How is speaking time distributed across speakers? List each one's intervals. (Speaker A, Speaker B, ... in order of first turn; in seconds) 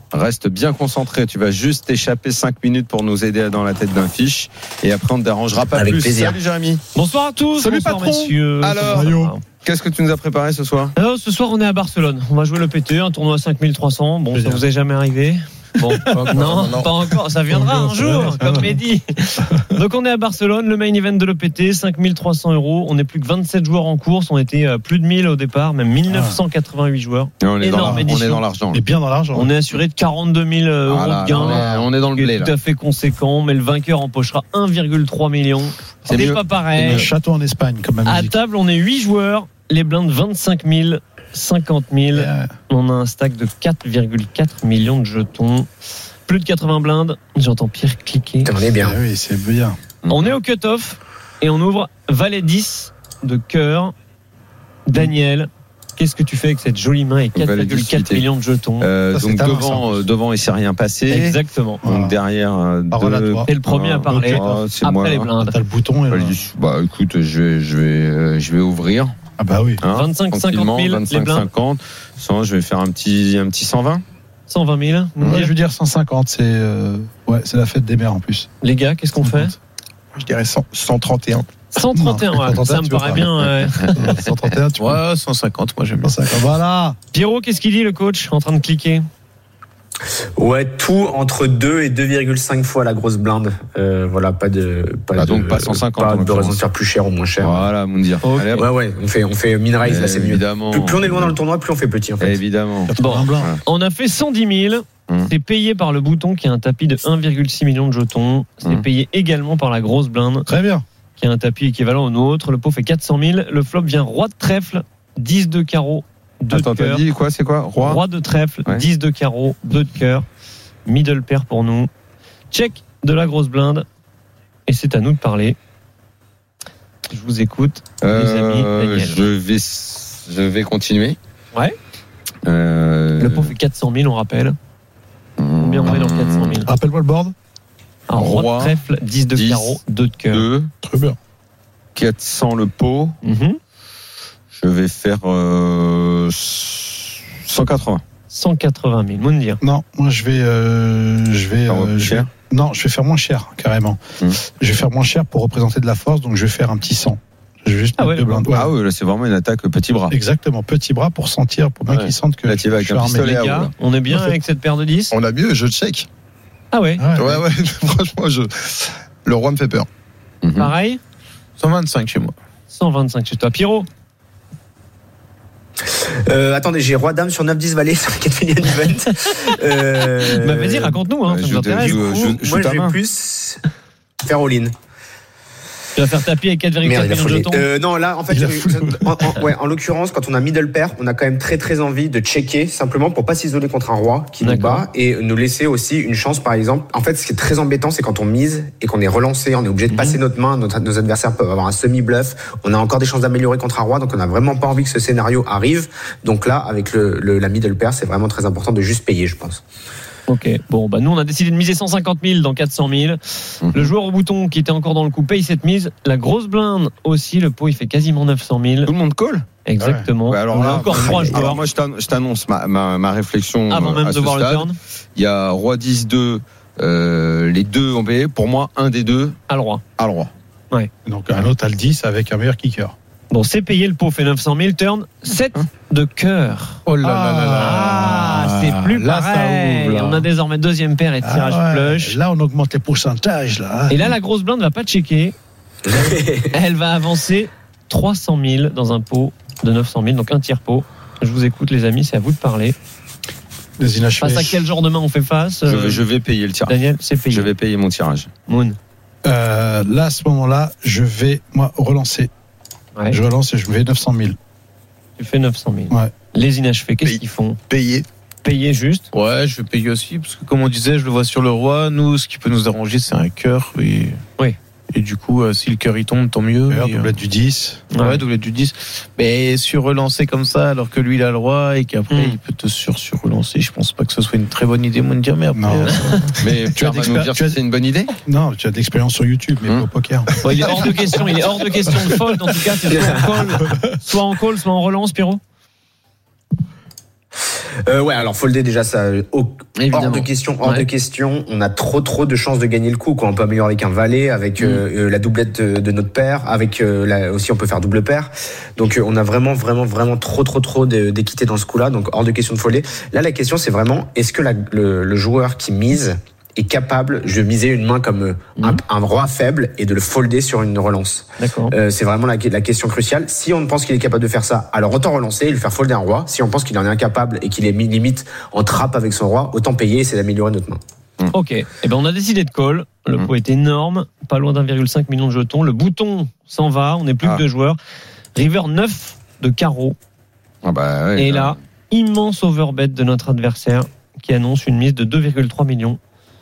Speaker A: 0.1-6.8, 8.6-10.9, 16.1-16.6, 27.4-28.8, 30.9-32.5, 36.0-37.1, 50.0-50.3, 57.3-58.2, 58.8-65.3, 66.1-69.1, 69.8-74.0, 83.7-84.1, 95.2-96.6, 97.4-98.7, 99.8-101.4, 102.2-103.6, 116.5-118.0, 128.0-131.2, 132.4-133.5, 135.4-136.6, 138.1-138.8, 139.3-140.7, 141.9-143.2, 144.5-148.0, 151.7-152.3, 158.5-160.1, 161.9-163.7, 170.4-170.7, 181.2-183.0, 213.6-213.9, 218.8-219.5, 220.2-229.4, 230.0-230.3, 255.6-258.3, 286.4-288.1, 299.7-300.3, 304.6-304.8, 340.6-341.6
Speaker B: 5.7-6.4, 48.4-49.0, 90.3-97.7, 98.5-102.4, 175.8-181.0, 181.8-183.6, 184.2-184.7, 186.8-209.6, 245.9-246.5, 292.9-293.5, 297.9-330.8
Speaker C: 6.9-9.4, 10.9-28.4, 29.3-37.1, 38.0-45.7, 46.2-48.5, 50.1-53.9, 54.9-58.9, 61.1-61.8, 63.5-65.5, 69.9-71.5, 74.5-75.5, 78.6-79.5, 81.7-83.9, 87.1-89.1, 98.2-98.7, 103.0-110.5, 111.2-117.0, 117.8-120.2, 120.8-121.9, 122.5-123.8, 124.7-125.6, 127.1-129.2, 133.2-134.6, 135.6-136.7, 138.1-140.4, 143.2-143.6, 148.3-149.6, 158.0-158.4, 163.3-165.1, 166.7-167.2, 170.6-171.0, 172.7-173.9, 180.3-182.0, 185.9-187.7, 194.4-194.8, 199.9-200.2, 210.3-213.2, 213.7-218.9, 219.6-221.6, 223.7-224.7, 229.5-229.8, 233.3-236.8, 237.6-242.2, 243.9-245.3, 246.5-252.8, 254.2-256.0, 256.7-257.5, 258.5-258.8, 265.2-267.6, 268.4-269.1, 277.9-278.2, 282.1-282.4, 290.4-295.4, 321.4-321.7, 331.3-337.8, 338.3-340.0, 341.1-346.0
Speaker D: 7.5-9.3, 14.3-14.6, 15.8-16.6, 17.5-18.8, 19.4-19.8, 26.1-26.4, 27.7-28.1, 28.7-29.5, 31.4-31.7, 36.8-38.3, 42.1-42.5, 48.8-49.8, 59.1-60.0, 61.8-62.1, 62.9-63.5, 64.1-64.7, 65.4-66.3, 69.4-69.8, 75.2-78.5, 79.2-79.5, 81.9-85.0, 86.0-87.0, 102.9-103.5, 110.5-110.8, 136.7-137.3, 140.8-141.2, 149.6-158.7, 160.1-163.4, 164.1-164.4, 167.0-167.3, 188.3-189.4, 219.8-221.6, 231.0-232.9, 237.0-238.3, 241.2-244.1, 253.8-254.6, 259.2-262.3, 263.1-264.4, 265.9-266.1, 276.7-277.9, 285.5-287.6, 288.2-291.2, 291.8-292.8, 293.5-294.0
Speaker E: 16.4-17.2, 80.1-81.5, 165.1-166.1, 167.1-169.9, 267.0-268.1
Speaker F: 84.8-86.3, 171.6-172.3, 236.8-240.3, 269.1-274.2, 274.9-277.1, 277.9-286.3